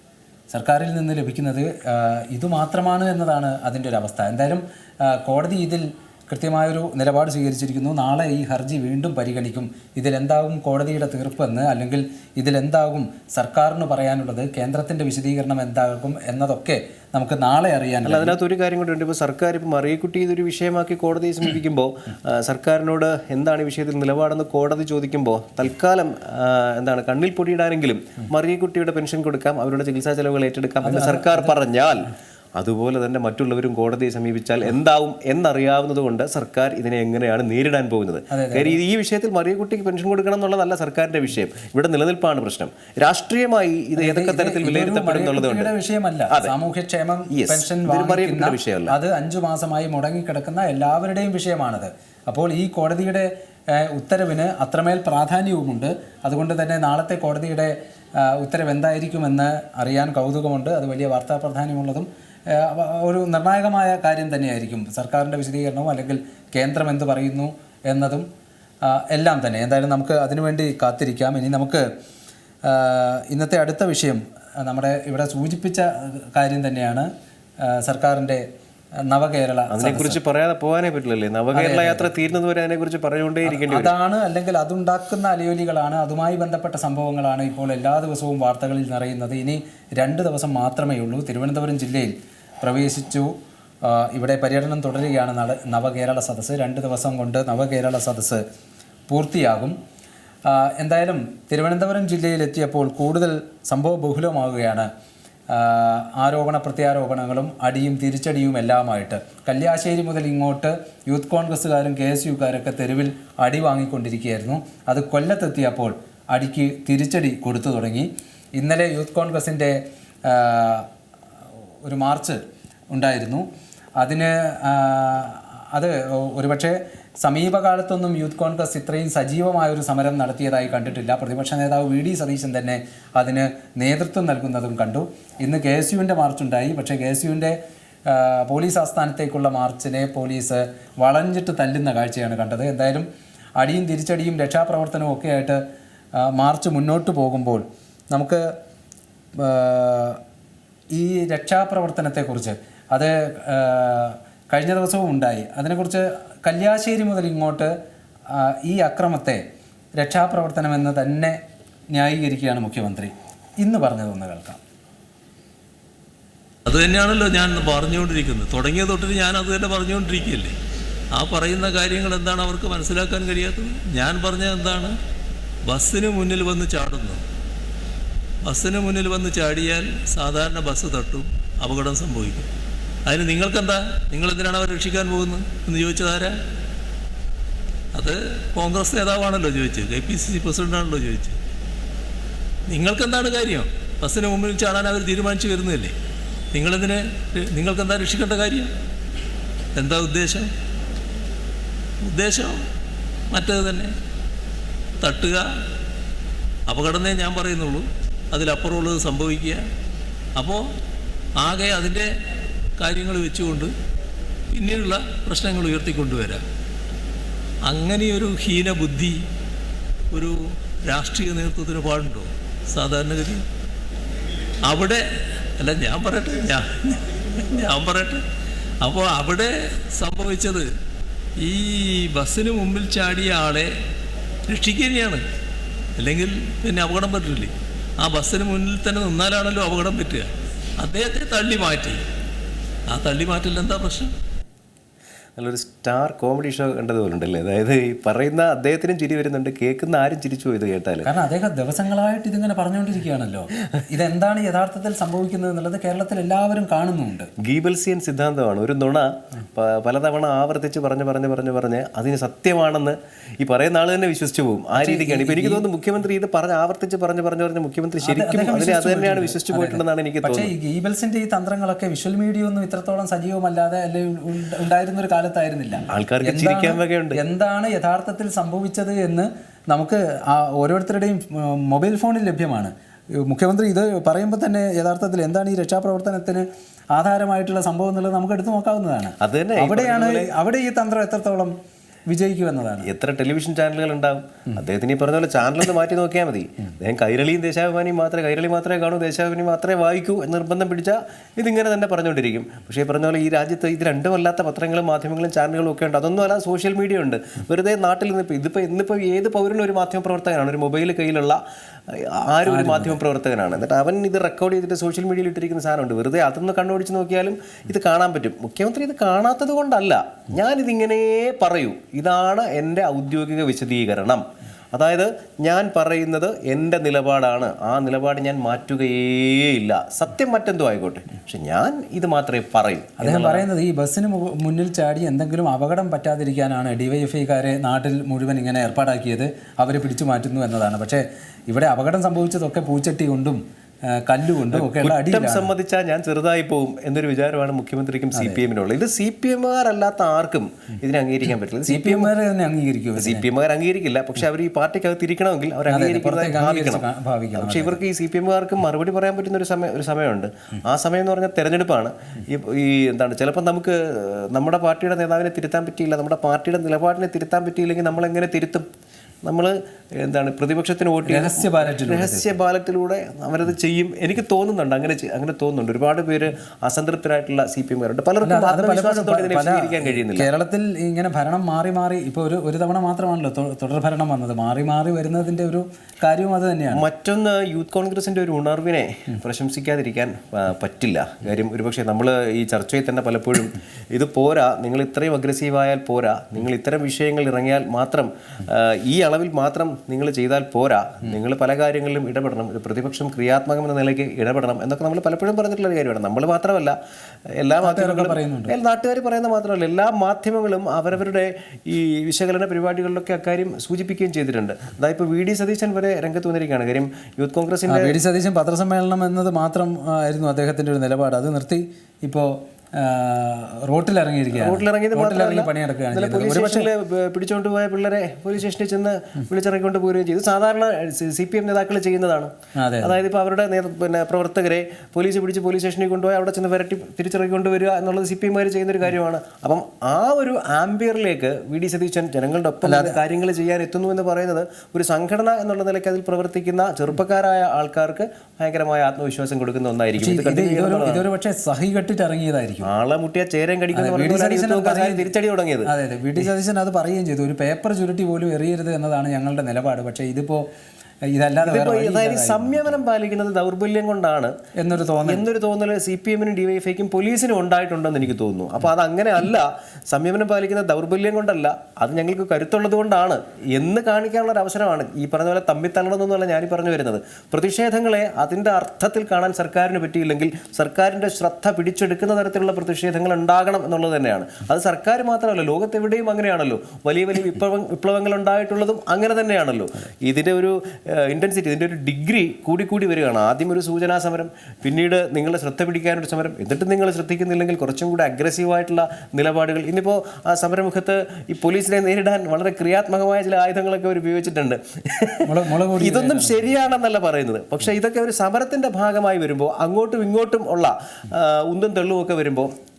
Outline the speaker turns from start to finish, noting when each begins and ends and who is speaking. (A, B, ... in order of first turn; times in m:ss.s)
0:00.5-0:18.4 A
0:18.0-0:45.7 B
0:30.8-0:31.5 A
0:38.3-0:38.8 A
0:44.0-1:08.2 A
0:47.3-0:49.0 B
1:08.8-1:11.8 A
1:12.6-1:17.1 A
1:17.6-1:18.4 A
1:19.1-1:20.2 A
1:19.7-1:23.9 B
1:21.5-1:22.1 A
1:23.4-1:38.4 A
1:39.1-1:39.8 A
1:40.4-1:44.9 A
1:45.5-2:00.9 A
2:01.8-2:02.4 A
2:02.9-2:03.4 A
2:04.0-2:23.0 A
2:23.6-2:25.6 A
2:26.2-2:28.5 A
2:29.4-2:30.2 A
2:30.9-2:37.7 A
2:38.3-2:39.4 A
2:40.0-2:41.4 A
2:41.9-2:44.6 A
2:46.6-2:50.5 C
2:51.1-2:55.0 C
2:55.6-2:57.2 C
2:58.4-3:02.5 C
3:03.0-3:06.4 C
3:07.9-3:11.4 C
3:12.7-3:15.9 C
3:16.5-3:18.7 C
3:19.7-3:20.5 C
3:22.0-3:22.6 C
3:23.3-3:23.9 C
3:25.0-3:25.5 C
3:26.7-3:29.6 C
3:30.4-3:30.6 C
3:31.4-3:32.1 C
3:32.8-3:33.7 C
3:34.5-3:36.4 C
3:37.6-3:39.2 C
3:40.1-3:43.4 C
3:44.6-3:48.2 C
3:48.8-3:50.7 C
3:51.4-3:53.7 C
3:54.5-3:55.2 C
3:56.0-4:02.0 C
4:02.9-4:04.1 C
4:05.4-4:11.1 B
4:11.0-4:17.3 A
4:17.4-4:30.5 B
4:24.8-4:25.6 A
4:28.0-4:51.5 A
4:35.9-4:37.2 B
4:49.2-4:50.3 B
4:52.1-4:52.9 A
4:52.8-5:33.4 B
5:12.4-5:13.0 A
5:33.0-5:45.5 A
5:44.5-5:52.1 B
5:48.1-5:48.4 A
5:51.6-5:53.2 A
5:53.0-6:08.6 B
5:55.7-5:57.8 A
6:09.2-6:20.3 B
6:11.0-6:12.3 A
6:18.2-6:26.8 A
6:26.7-6:46.8 B
6:47.3-6:57.9 B
6:47.6-6:48.5 A
6:57.7-7:06.7 A
7:04.4-7:31.0 B
7:12.6-7:13.0 A
7:22.6-7:23.0 A
7:30.0-7:32.7 A
7:32.6-7:35.7 B
7:33.7-7:35.1 A
7:35.6-7:40.5 A
7:41.1-7:42.8 A
7:41.4-7:44.3 B
7:44.6-7:45.2 A
7:45.0-8:32.5 B
8:25.2-8:26.4 A